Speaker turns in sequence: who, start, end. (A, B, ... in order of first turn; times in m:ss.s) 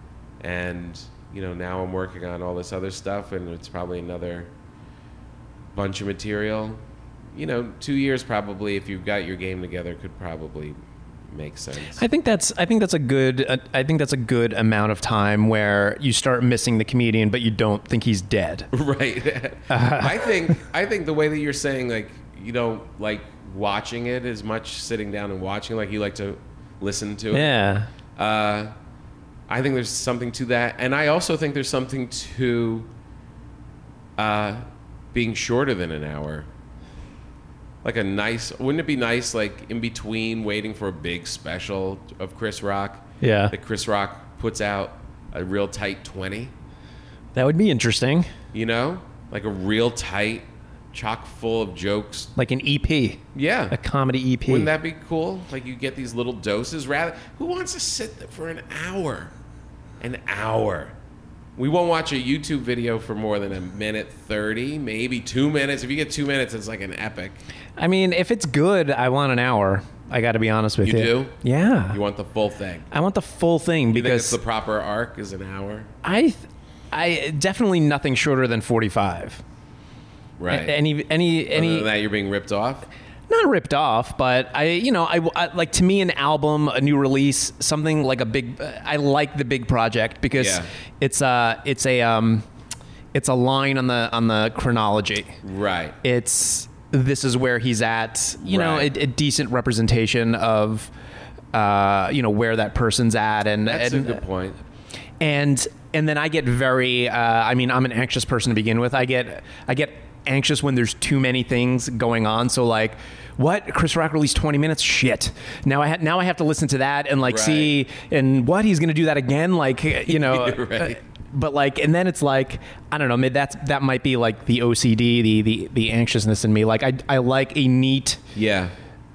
0:00.4-0:04.5 A
0:05.7-0:06.8 A
0:07.3-0:10.8 A
0:11.3-0:12.0 A
0:12.0-0:18.7 B
0:18.7-0:27.5 A
0:19.7-0:20.3 B
0:27.3-0:27.9 B
0:28.2-0:28.7 A
0:29.5-0:32.9 A
0:34.2-0:36.5 A
0:37.8-0:46.5 A
0:43.2-0:43.5 B
0:47.3-0:48.3 B
0:48.5-0:52.3 A
0:52.4-0:54.7 B
0:53.3-0:53.8 A
0:54.5-0:59.3 A
1:00.0-1:00.9 A
1:01.6-1:07.4 A
1:07.8-1:12.0 B
1:10.8-1:11.4 A
1:11.9-1:12.9 A
1:12.9-1:14.4 B
1:13.9-1:15.9 A
1:16.0-1:19.4 B
1:20.4-1:20.8 A
1:20.5-1:21.9 B
1:21.5-1:22.9 A
1:23.3-1:32.4 B
1:30.4-1:30.7 A
1:33.1-1:35.4 B
1:35.4-1:36.0 A
1:36.0-1:40.9 B
1:38.4-1:38.9 A
1:41.5-1:44.2 B
1:43.6-1:44.6 A
1:45.2-2:08.2 B
1:57.2-1:57.8 A
2:00.1-2:01.0 A
2:08.3-2:08.7 A